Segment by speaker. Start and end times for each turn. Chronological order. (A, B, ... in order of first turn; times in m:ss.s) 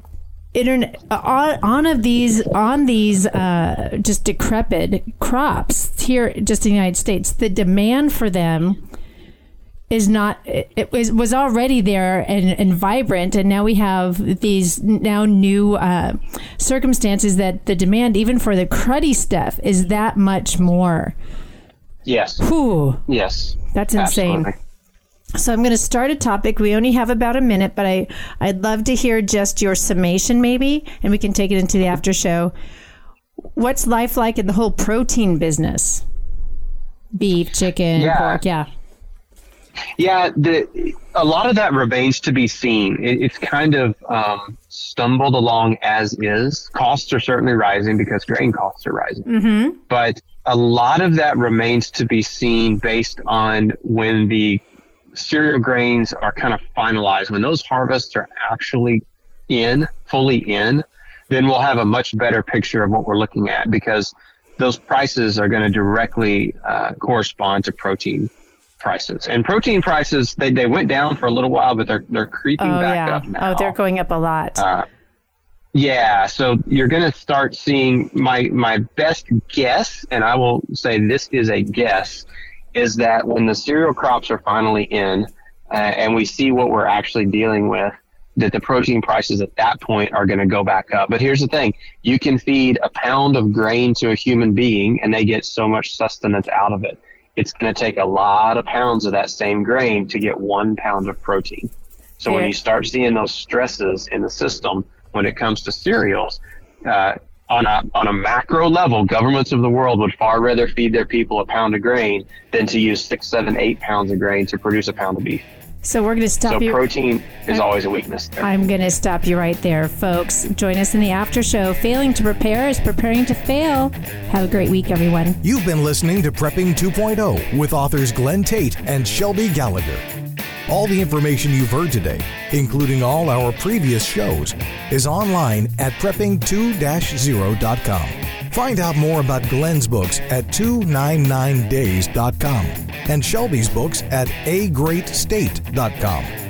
0:00.5-0:08.8 A
0:09.9-0:21.2 A
0:22.0-0:22.4 B
0:22.4-0:23.0 A
0:23.1-0:24.5 B
0:23.7-0:24.5 A
0:25.4-0:32.5 A
0:33.6-0:36.0 A
0:37.2-0:38.7 A
0:38.0-0:38.4 B
0:40.0-0:49.2 B
0:49.3-0:49.8 A
0:49.9-0:54.6 B
0:55.1-1:08.3 B
1:08.8-1:13.7 B
1:12.6-1:14.6 A
1:14.6-1:14.9 B
1:15.7-1:55.4 B
1:55.8-1:56.8 A
1:56.5-1:58.5 B
1:58.4-2:05.4 A
2:05.4-2:10.0 C
2:10.7-2:26.3 C